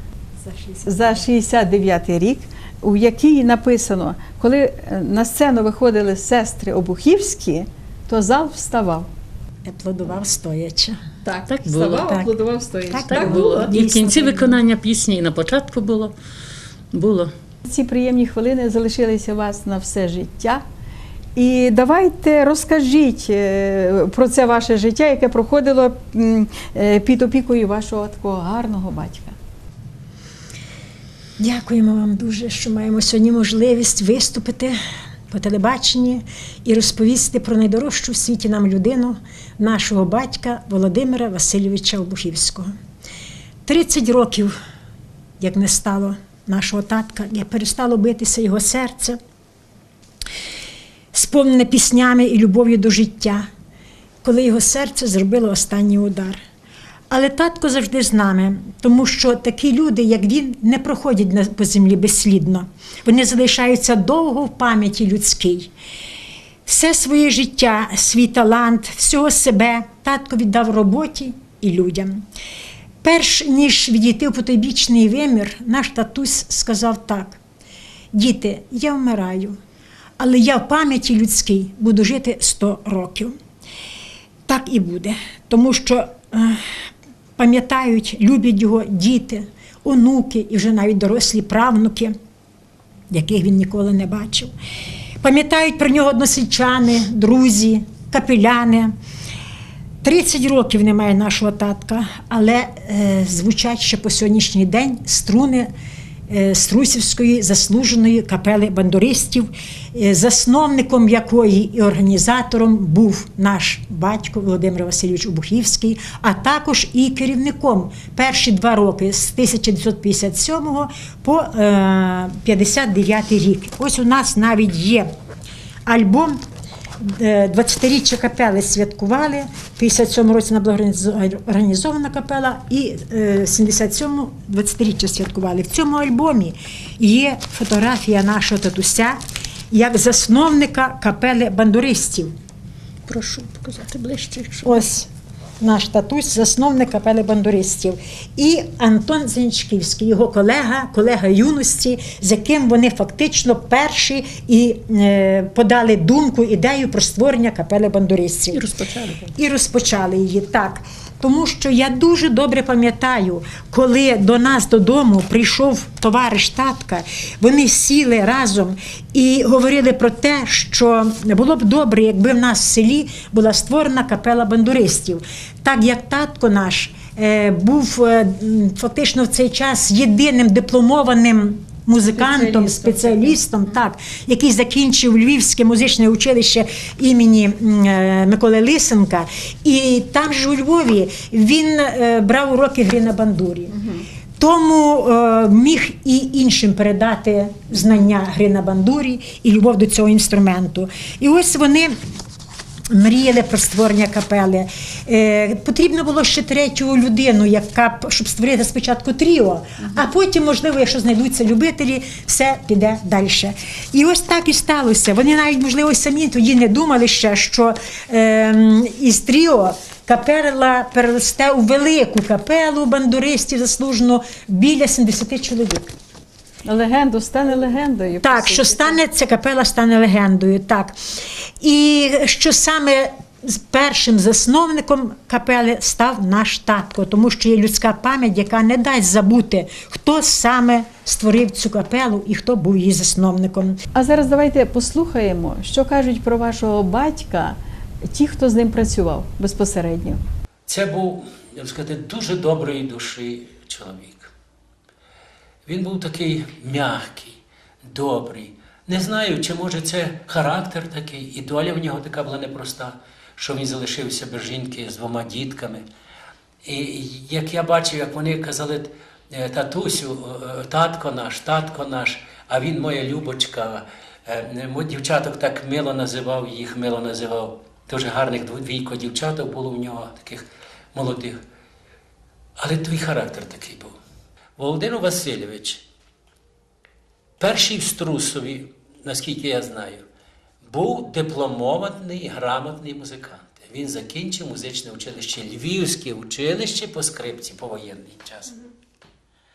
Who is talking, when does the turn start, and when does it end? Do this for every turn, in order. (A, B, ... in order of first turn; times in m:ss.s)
0:00.4-0:01.2 A
0:00.8-0:09.1 B
0:09.6-0:11.0 A
0:11.2-0:13.8 B
0:11.4-0:12.2 C
0:12.9-0:14.6 A
0:13.0-0:16.1 C
0:16.9-0:17.3 C
0:17.6-0:20.6 B
0:21.3-0:29.4 B
0:31.4-0:34.8 A
0:35.3-0:42.7 A
0:43.6-0:44.5 A
0:45.4-0:49.2 A
0:51.1-0:53.5 A
0:54.2-0:56.4 A
0:57.1-1:05.7 A
1:06.6-1:12.2 A
1:13.0-1:17.4 A
1:18.1-1:19.6 A
1:20.2-1:23.3 A
1:24.5-1:26.8 A
1:27.4-1:32.2 A
1:33.1-1:34.5 A
1:35.2-1:38.9 A
1:40.0-1:45.7 A
1:46.3-2:05.1 A
2:05.8-2:06.4 A
2:07.0-2:19.2 A
2:19.7-2:22.3 A
2:23.1-2:24.8 C
2:24.6-2:25.1 A
2:25.6-2:38.6 A
2:38.5-2:39.3 C
2:39.4-3:13.8 A
3:02.1-3:03.4 B
3:13.7-3:14.0 B
3:14.4-3:22.0 A
3:22.9-3:45.9 A
3:46.6-3:49.0 B
3:48.2-3:51.0 A
3:51.6-4:03.8 A
4:03.9-4:07.6 B
4:08.1-4:10.2 B
4:10.6-4:14.3 D
4:15.6-4:25.8 D
4:26.6-4:41.4 D
4:42.6-4:44.0 D
4:44.6-4:45.8 D
4:47.4-4:50.0 D
4:50.6-4:58.5 D